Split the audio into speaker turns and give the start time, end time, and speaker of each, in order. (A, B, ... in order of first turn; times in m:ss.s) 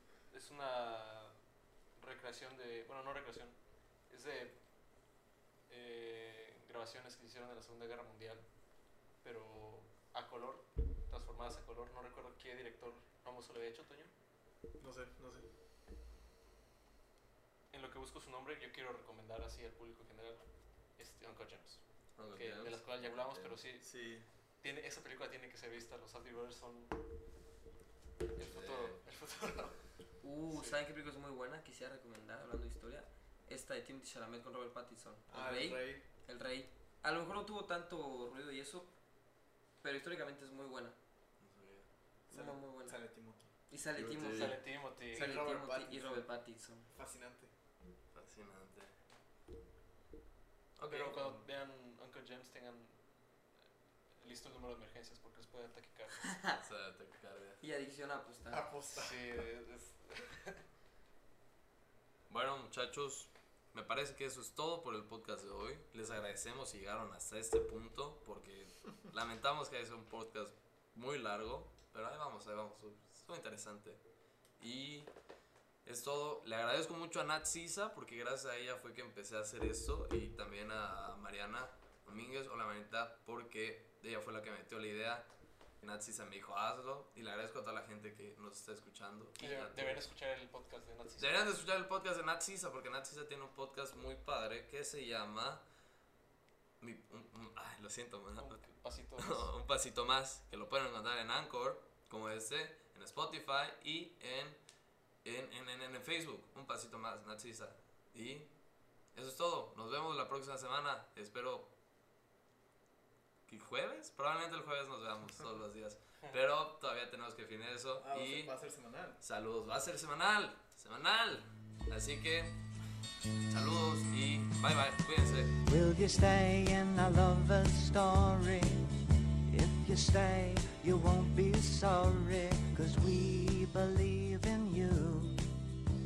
0:00.3-0:01.4 A
0:02.0-0:03.6 A
0:04.1-0:04.6 A
0:05.7-0:08.5 A
0:09.2-0:14.1 A
0:14.8-0:15.5 B
0:17.7-0:20.4 A
0:21.0-0:21.8 A
0:22.2-0:23.6 C
0:22.4-0:23.9 A
0:23.8-0:24.3 B
0:24.6-0:27.0 A
0:28.4-0:29.8 A
0:28.4-0:29.0 C
0:30.2-0:38.9 D
0:30.5-0:30.8 A
0:35.3-0:36.0 B
0:39.8-0:41.0 D
0:41.4-0:41.9 C
0:42.3-0:43.5 B
0:42.3-0:43.0 D
0:43.7-0:46.9 D
0:44.0-0:44.6 C
0:44.2-0:45.4 A
0:45.1-0:46.3 B
0:46.9-0:47.5 B
0:48.1-0:49.0 C
0:50.8-0:51.4 C
0:50.9-0:53.0 A
0:54.2-0:56.3 A
0:56.6-0:57.6 C
0:57.6-0:58.7 D
0:58.5-0:59.5 B
0:58.9-1:00.6 A
1:02.3-1:14.0 C
1:14.6-1:15.1 C
1:15.8-1:25.3 C
1:25.8-1:30.1 C
1:29.4-1:31.5 A
1:31.2-1:35.6 C
1:36.8-1:38.6 C
1:38.4-1:39.5 A
1:39.2-1:44.6 C
1:45.2-1:48.5 C
1:49.1-1:51.7 C
1:53.5-1:58.5 C
1:58.0-1:59.2 B
1:59.2-2:02.6 C
2:03.5-2:05.6 C
2:05.6-2:15.6 E